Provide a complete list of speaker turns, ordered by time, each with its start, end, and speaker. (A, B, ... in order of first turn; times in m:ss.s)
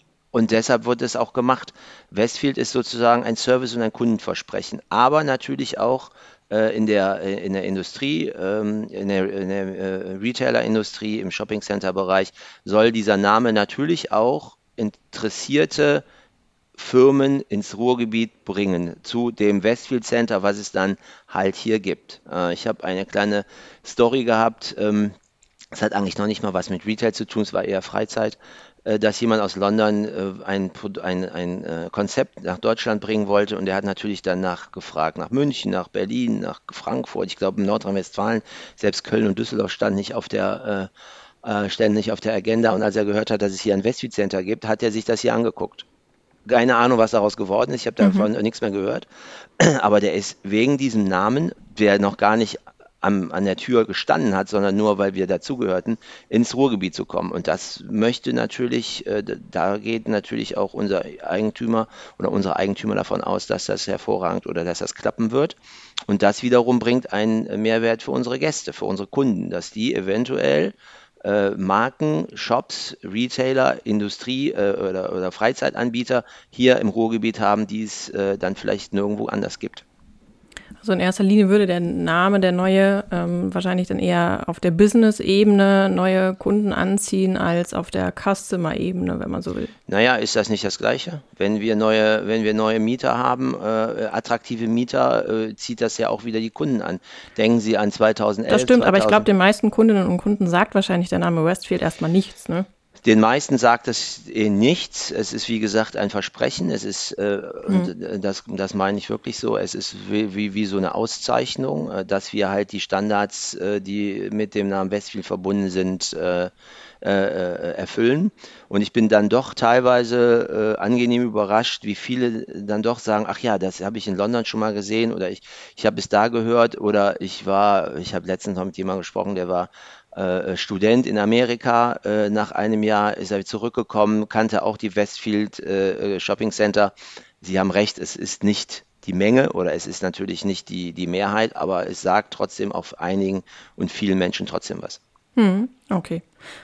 0:00.3-0:16.0 A
0:16.8-0:25.1 A
0:25.7-0:40.9 A
0:41.4-0:45.8 A
0:46.5-0:49.0 A
0:48.0-0:48.3 B
0:49.6-1:05.6 A
1:06.1-1:19.8 A
1:20.8-1:29.7 B
1:29.9-1:39.2 A
1:38.5-1:42.6 B
1:43.0-1:56.5 A
1:57.0-2:25.0 A
2:25.4-2:26.2 B